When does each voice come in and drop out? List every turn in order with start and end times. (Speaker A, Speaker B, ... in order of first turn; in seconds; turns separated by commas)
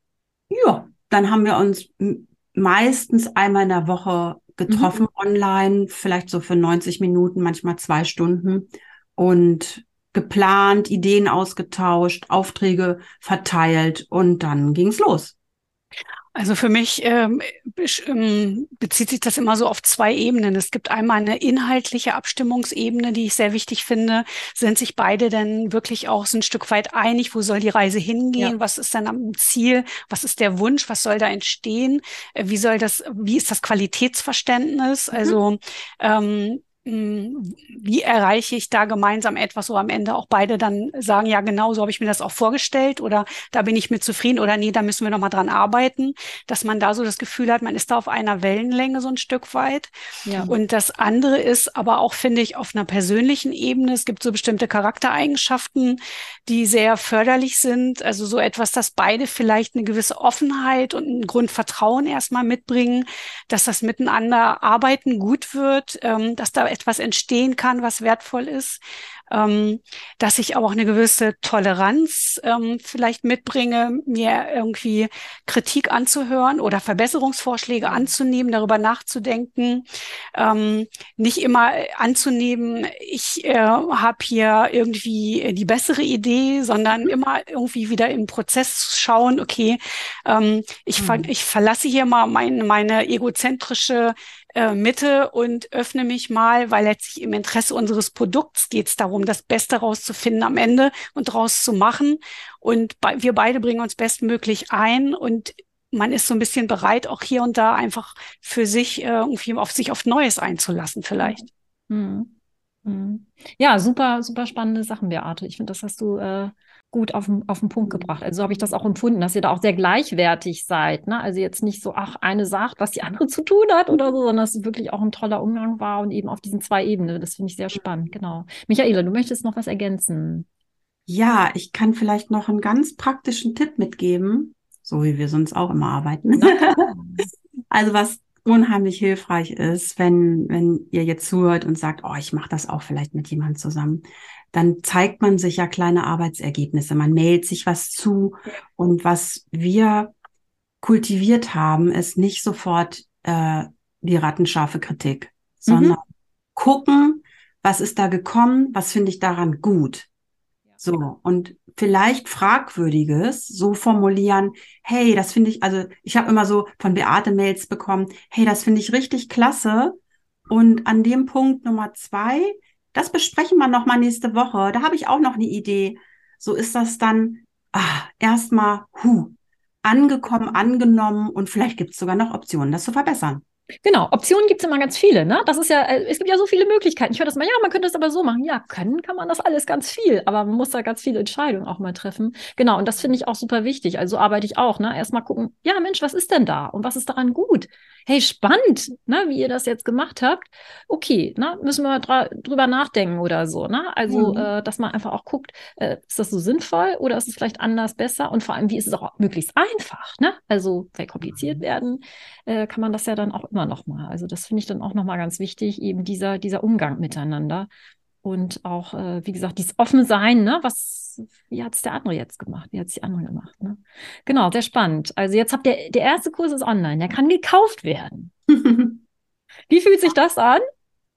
Speaker A: 0.5-15.3, Speaker B: 4.7-5.0, Speaker C: 16.4-49.9, Speaker B: 50.3-50.5, Speaker C: 50.5-111.4, Speaker A: 91.0-91.3, Speaker B: 111.2-112.3, Speaker B: 112.8-130.5, Speaker A: 131.1-136.9, Speaker B: 136.4-137.2, Speaker A: 137.7-150.1, Speaker A: 150.8-156.0, Speaker B: 155.7-156.0, Speaker A: 156.6-160.1, Speaker A: 160.8-183.4, Speaker B: 183.8-217.7, Speaker A: 204.1-204.5, Speaker A: 211.2-211.6, Speaker B: 218.2-228.3, Speaker A: 228.5-229.0, Speaker B: 229.7-230.6